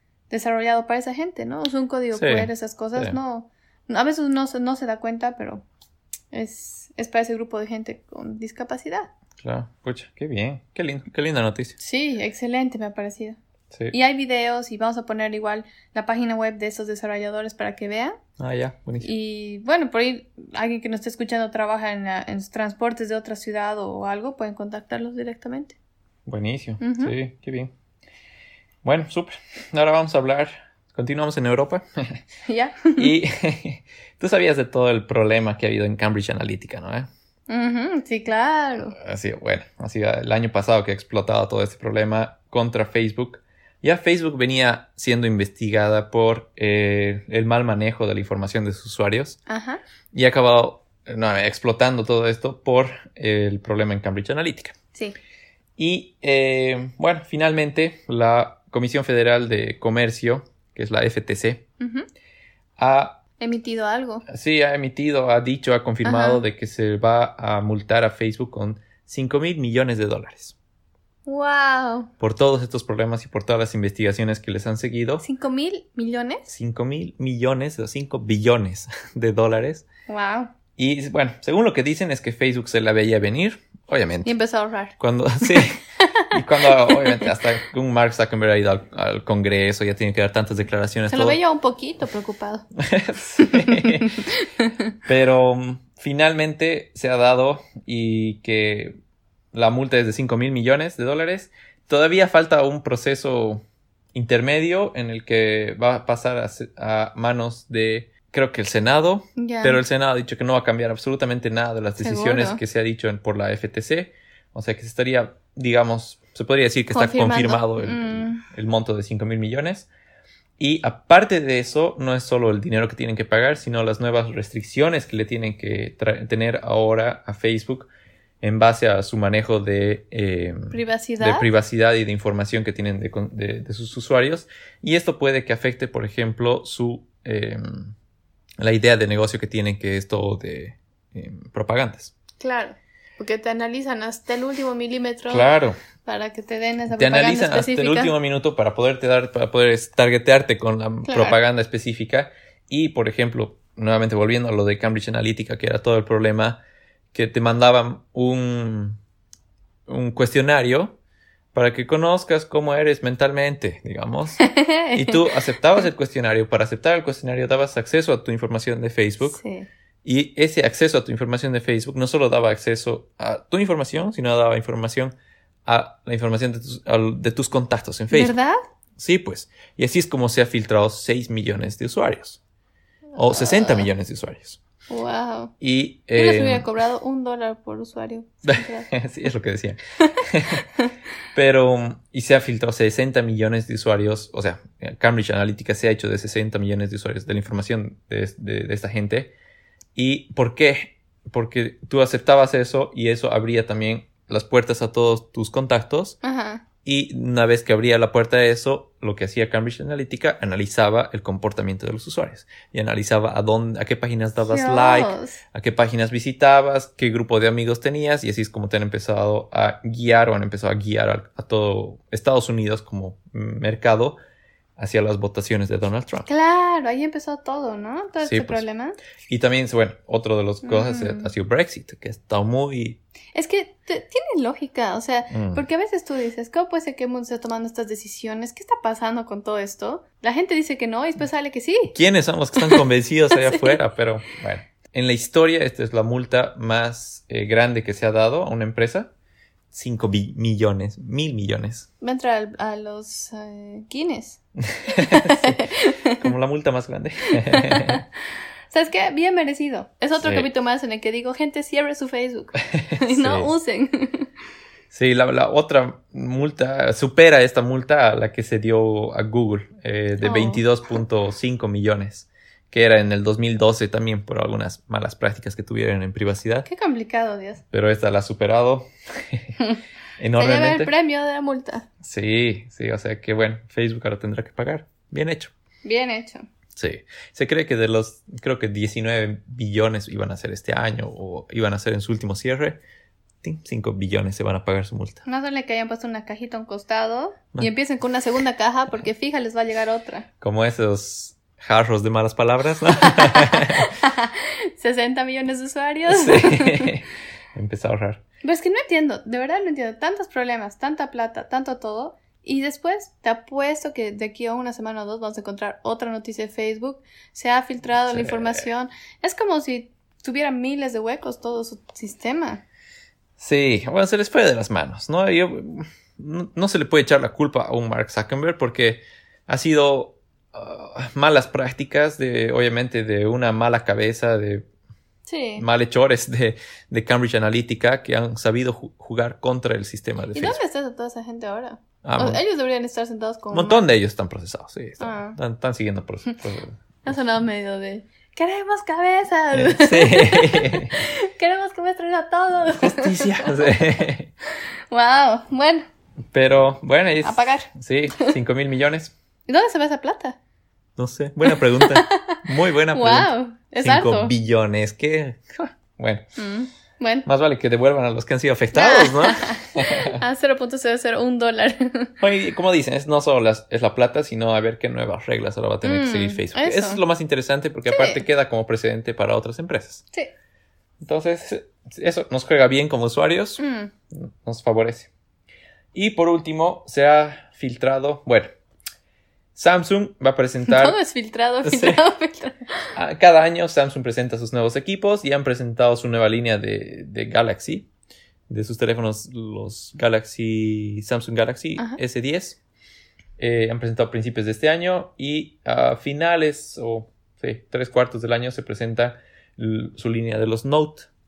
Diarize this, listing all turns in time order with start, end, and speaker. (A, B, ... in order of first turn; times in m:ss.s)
0:00.3-0:05.6 A
0:02.1-0:03.2 B
0:06.3-0:09.1 A
0:09.4-0:11.8 B
0:11.8-0:13.4 A
0:13.9-0:18.2 A
0:18.4-0:19.1 B
0:19.0-0:25.8 A
0:26.2-0:27.7 B
0:26.8-0:27.1 A
0:28.8-0:32.2 B
0:32.5-0:33.2 A
0:33.0-0:37.1 B
0:37.5-0:39.0 A
0:38.9-0:49.4 B
0:49.5-0:49.8 A
0:50.1-0:54.7 B
0:55.8-1:01.6 B
1:01.8-1:02.1 A
1:02.8-1:03.2 B
1:03.4-1:04.2 A
1:04.3-1:10.6 B
1:06.0-1:06.4 A
1:11.2-1:12.1 A
1:12.2-1:15.2 B
1:15.2-1:16.5 A
1:16.5-1:19.8 B
1:20.1-1:20.5 A
1:20.8-1:24.3 B
1:24.2-1:27.3 A
1:25.0-1:25.8 B
1:26.3-1:31.4 B
1:31.1-1:32.7 A
1:32.8-1:34.2 B
1:33.4-1:34.9 A
1:35.1-1:39.0 B
1:39.5-1:43.6 B
1:44.1-1:59.9 B
1:49.4-1:49.8 A
1:52.0-1:52.6 A
1:56.9-1:58.4 A
2:00.6-2:07.9 B
2:08.4-2:17.9 B
2:10.7-2:11.5 A
2:18.6-2:22.1 B
2:22.4-2:25.5 A
2:25.3-2:25.8 B
2:26.0-2:28.1 A
2:26.9-2:36.6 B
2:31.0-2:31.4 A
2:37.1-2:39.0 B
2:39.9-2:41.0 B
2:41.5-2:49.4 B
2:44.4-2:45.4 A
2:49.2-2:49.7 A
2:50.0-2:55.1 B
2:55.6-2:58.4 B
2:58.1-2:58.6 A
2:59.0-3:02.4 B
3:03.1-3:03.9 A
3:03.2-3:04.6 B
3:04.9-3:05.5 A
3:05.6-3:06.7 B
3:06.1-3:08.9 A
3:08.4-3:10.6 B
3:10.1-3:10.9 A
3:11.3-3:19.3 B
3:19.9-3:26.2 B
3:26.2-3:26.6 A
3:26.8-3:44.2 B
3:34.4-3:35.4 A
3:44.8-3:46.3 B
3:46.2-3:49.0 A
3:48.2-3:48.6 B
3:49.3-3:53.0 B
3:50.6-3:51.3 A
3:53.4-4:02.0 A
3:55.3-3:55.6 B
4:01.9-4:09.1 B
4:02.6-4:03.8 A
4:09.7-4:11.9 B
4:12.0-4:16.3 A
4:14.6-4:18.0 B
4:17.3-4:18.0 A
4:18.7-4:24.3 A
4:20.2-4:20.5 B
4:22.7-4:23.5 B
4:24.9-4:36.7 B
4:30.2-4:30.6 A
4:36.6-4:37.6 A
4:37.7-4:39.5 B
4:40.2-4:40.9 B
4:40.4-4:41.9 A
4:42.0-4:45.5 B
4:45.8-4:46.4 A
4:46.8-4:52.8 B
4:53.4-4:55.2 B
4:55.2-5:00.3 A
5:00.4-5:03.9 B
5:03.0-5:06.9 A
5:06.1-5:08.2 B
5:08.4-5:22.6 A
5:18.1-5:18.6 B
5:23.4-5:34.7 B
5:35.2-5:35.6 A
5:35.6-5:40.6 B
5:40.3-5:43.8 A
5:42.0-5:42.4 B
5:43.5-5:47.2 B
5:45.0-5:45.4 A
5:47.0-5:53.8 A
5:49.5-5:51.0 B
5:52.6-5:54.3 B
5:54.9-5:55.9 A
5:56.3-5:59.1 B
5:57.2-5:58.4 A
5:59.5-6:00.4 A
6:01.0-6:06.2 B
6:01.4-6:02.4 A
6:02.9-6:04.3 A
6:06.4-6:07.3 A
6:07.2-6:10.2 B
6:08.7-6:12.1 A
6:12.2-6:20.0 B
6:15.8-6:17.0 A
6:17.9-6:18.2 A
6:21.0-6:25.1 B
6:23.6-6:23.9 A
6:25.9-6:28.5 B
6:29.6-6:31.0 B
6:30.7-6:32.9 A
6:31.6-6:32.0 B
6:32.9-6:37.9 B
6:38.5-6:42.6 B
6:43.4-6:51.1 B